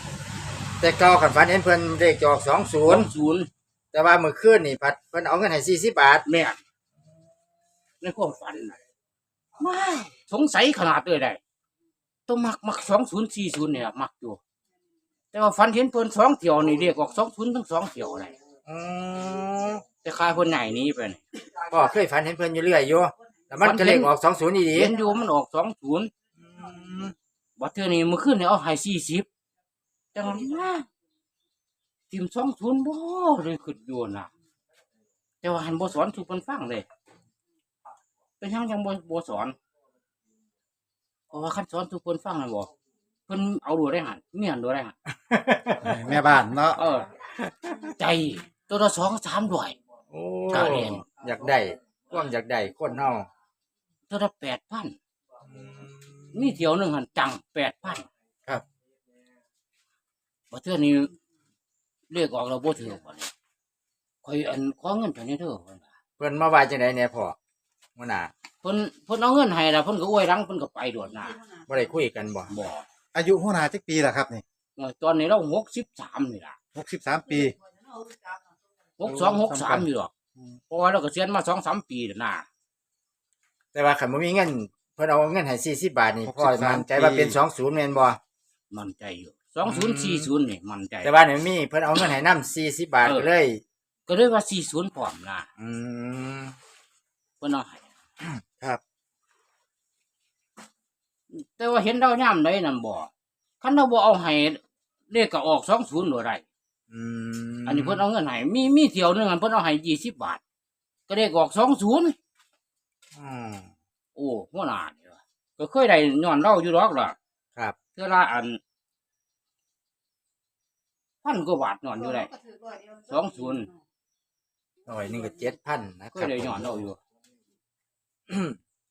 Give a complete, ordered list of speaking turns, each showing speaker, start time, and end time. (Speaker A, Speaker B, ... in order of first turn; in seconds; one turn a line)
Speaker A: 0.8-3.1
Speaker B: 2.8-3.5
Speaker A: 3.9-6.2
Speaker B: 6.2-6.6
Speaker B: 8.0-8.7
Speaker B: 9.6-11.4
Speaker B: 12.3-14.4
Speaker B: 15.3-18.3
Speaker A: 18.6-19.8
Speaker B: 20.0-21.2
Speaker A: 21.7-24.9
Speaker B: 23.6-24.1
Speaker B: 24.7-26.1
Speaker A: 26.5-27.1
Speaker B: 27.6-29.2
Speaker B: 30.1-30.8
Speaker B: 32.1-34.3
Speaker B: 35.4-36.9
Speaker B: 38.4-39.5
Speaker B: 41.3-42.7
Speaker B: 43.3-44.9
Speaker A: 45.3-45.8
Speaker C: 45.8-46.8
Speaker B: 46.8-47.1
Speaker B: 48.0-49.7
Speaker A: 50.1-53.3
Speaker B: 50.5-51.0
Speaker B: 54.1-54.9
Speaker A: 55.5-56.1
Speaker B: 56.3-58.0
Speaker B: 60.5-61.1
Speaker B: 62.1-63.3
Speaker B: 64.2-65.8
Speaker A: 66.2-67.3
Speaker A: 68.0-68.3
Speaker B: 68.6-71.4
Speaker A: 71.7-72.5
Speaker B: 72.5-72.8
Speaker C: 73.1-74.4
Speaker B: 74.8-76.6
Speaker C: 76.7-77.5
Speaker B: 79.0-80.1
Speaker C: 79.1-79.8
Speaker B: 80.7-82.4
Speaker A: 83.7-88.2
Speaker C: 86.2-87.4
Speaker B: 88.7-91.1
Speaker A: 89.7-90.3
Speaker A: 91.0-93.6
Speaker B: 94.1-95.5
Speaker A: 95.6-96.5
Speaker B: 97.4-97.8
Speaker A: 98.2-98.8
Speaker B: 101.3-103.1
Speaker B: 103.6-104.6
Speaker B: 105.1-106.4
Speaker A: 106.9-108.0
Speaker B: 107.7-110.4
Speaker B: 111.1-112.1
Speaker A: 113.1-113.7
Speaker B: 114.2-117.1
Speaker B: 118.0-118.6
Speaker B: 121.2-122.3
Speaker B: 123.1-123.7
Speaker A: 124.8-126.8
Speaker B: 126.1-127.0
Speaker A: 128.3-128.6